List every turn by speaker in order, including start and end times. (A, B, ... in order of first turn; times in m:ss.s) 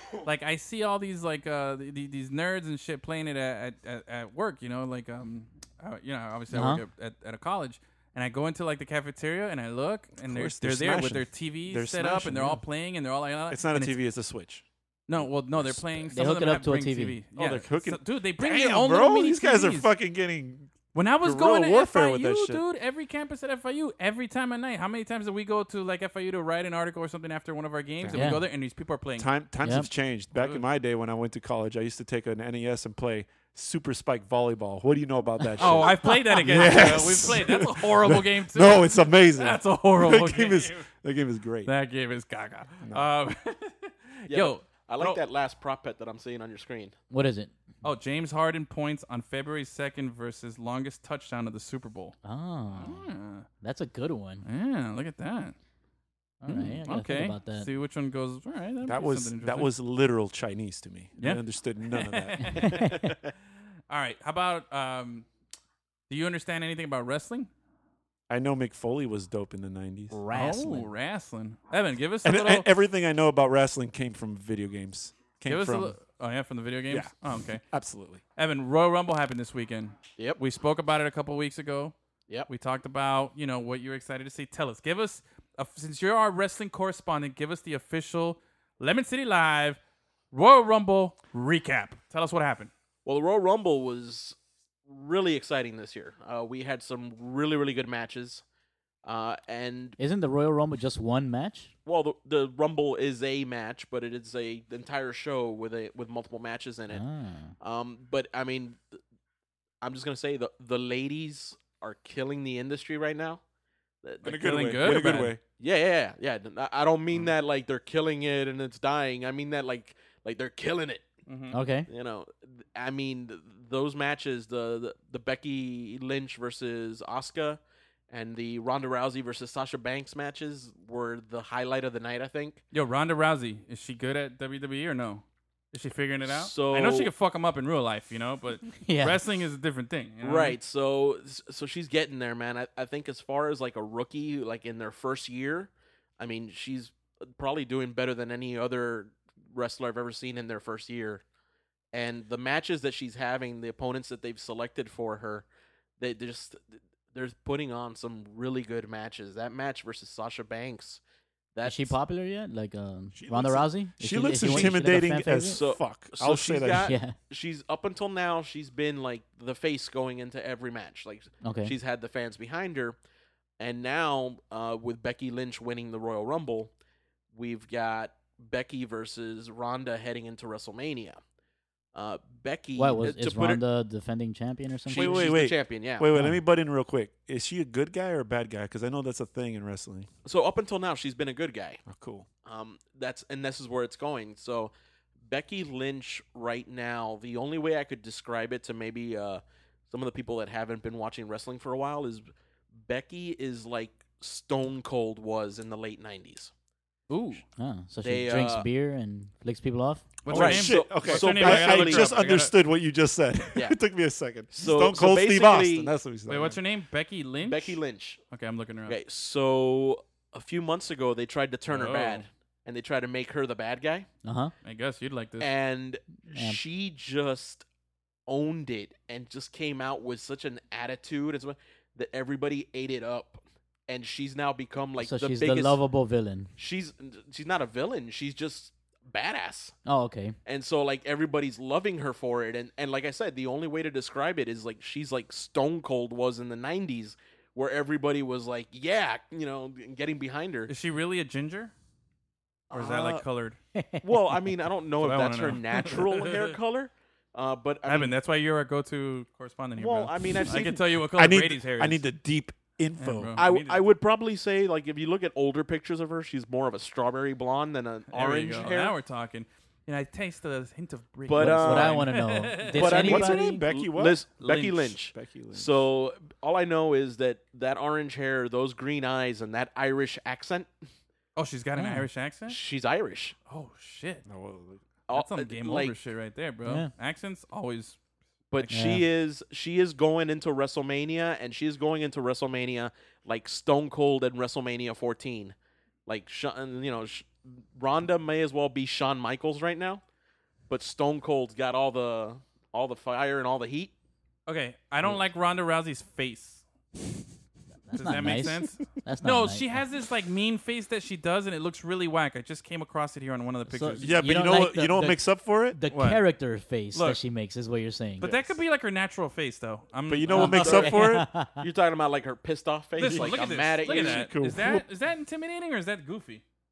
0:00.2-0:14.0 A
0:06.5-0:06.8 B
0:10.2-0:12.6 C
0:13.5-0:16.2 C
0:15.1-0:19.9 A
0:16.1-0:17.2 B
0:17.4-0:22.6 C
0:20.9-0:29.3 A
0:28.0-0:28.4 C
0:28.1-0:28.4 B
0:29.2-0:41.7 C
0:29.6-0:29.9 B
0:30.4-0:30.6 A
0:35.6-0:40.9 A
0:41.7-0:45.2 A
0:42.8-0:43.1 C
0:44.3-0:47.0 D
0:47.1-0:47.5 B
0:47.8-0:52.2 A
0:52.2-0:53.1 B
0:52.8-0:53.5 A
0:53.6-0:54.4 B
0:54.4-0:55.6 A
0:56.4-0:57.7 B
0:56.4-0:59.7 A
0:58.8-1:02.8 C
1:01.2-1:03.0 A
1:02.4-1:03.0 B
1:03.9-1:05.3 A
1:06.1-1:07.5 A
1:08.3-1:10.2 C
1:10.1-1:10.9 B
1:10.3-1:12.7 A
1:12.2-1:16.0 C
1:15.5-1:17.7 A
1:16.9-1:18.2 C
1:18.4-1:22.0 A
1:22.5-1:29.8 A
1:30.3-1:32.7 A
1:33.0-1:38.4 D
1:39.0-1:40.0 D
1:40.0-1:41.7 B
1:41.8-1:47.0 D
1:46.9-1:47.6 B
1:47.6-1:49.0 D
1:49.8-1:53.4 D
1:54.0-1:54.4 D
1:54.2-1:55.4 A
1:54.2-1:55.4 C
1:55.6-2:01.1 D
2:01.3-2:01.6 A
2:01.5-2:01.9 B
2:01.9-2:12.6 D
2:12.7-2:20.6 A
2:16.2-2:17.1 D
2:18.8-2:19.2 B
2:20.2-2:31.2 D
2:31.9-2:35.5 D
2:36.0-2:41.0 D
2:41.6-2:42.0 D
2:41.6-2:45.6 B
2:43.2-2:46.9 C
2:44.5-2:44.8 D
2:45.5-2:53.0 D
2:46.8-2:47.2 B
2:51.4-2:51.7 B
2:53.6-2:56.7 D
2:57.3-3:01.2 D
3:01.9-3:03.6 D
3:02.8-3:05.3 B
3:04.9-3:06.1 D
3:04.9-3:10.1 C
3:06.1-3:06.4 B
3:10.2-3:11.8 D
3:11.9-3:12.3 C
3:12.4-3:14.7 D
3:15.2-3:22.3 D
3:22.8-3:26.5 D
3:27.1-3:27.4 A
3:27.6-3:30.0 B
3:28.0-3:28.7 D
3:30.2-3:32.5 A
3:30.3-3:32.2 D
3:30.3-3:36.6 C
3:34.5-3:35.9 D
3:36.3-3:37.8 A
3:37.4-3:38.2 D
3:38.3-3:39.0 A
3:38.9-3:44.1 D
3:41.7-3:42.3 A
3:44.2-3:44.5 B
3:44.6-3:45.5 A
3:45.4-3:47.7 D
3:46.3-3:46.6 B
3:48.3-3:55.8 D
3:55.0-3:56.5 B
3:56.6-3:59.8 D
3:59.9-4:00.4 B
4:00.4-4:10.7 D
4:10.7-4:11.7 A
4:12.7-4:13.2 D
4:12.7-4:13.6 A
4:13.8-4:14.0 B
4:14.0-4:18.1 D
4:15.0-4:16.5 A
4:17.8-4:22.0 A
4:19.8-4:20.8 D
4:20.6-4:23.4 C
4:23.0-4:23.8 A
4:23.4-4:29.0 D
4:28.1-4:33.0 A
4:31.3-4:32.1 D
4:31.4-4:33.6 B
4:32.7-4:40.7 D
4:32.8-4:35.8 C
4:34.4-4:35.0 A
4:41.4-4:42.6 A
4:41.8-4:42.1 B
4:42.5-4:43.4 D
4:43.5-4:44.2 A
4:44.2-4:44.9 C
4:45.1-4:45.9 D
4:45.1-4:48.0 A
4:46.7-4:46.9 B
4:48.5-4:55.6 D
4:48.7-4:49.0 B
4:56.1-5:00.0 D
5:00.7-5:03.9 D
5:04.5-5:06.6 A
5:07.9-5:09.8 B
5:07.9-5:14.3 A
5:13.7-5:18.3 B
5:14.0-5:15.8 C
5:15.9-5:16.2 A
5:16.9-5:17.2 A
5:18.2-5:20.8 A
5:20.1-5:21.3 C
5:20.3-5:21.6 B
5:20.5-5:21.0 D
5:21.6-5:24.3 D
5:23.0-5:26.4 A
5:23.0-5:24.9 C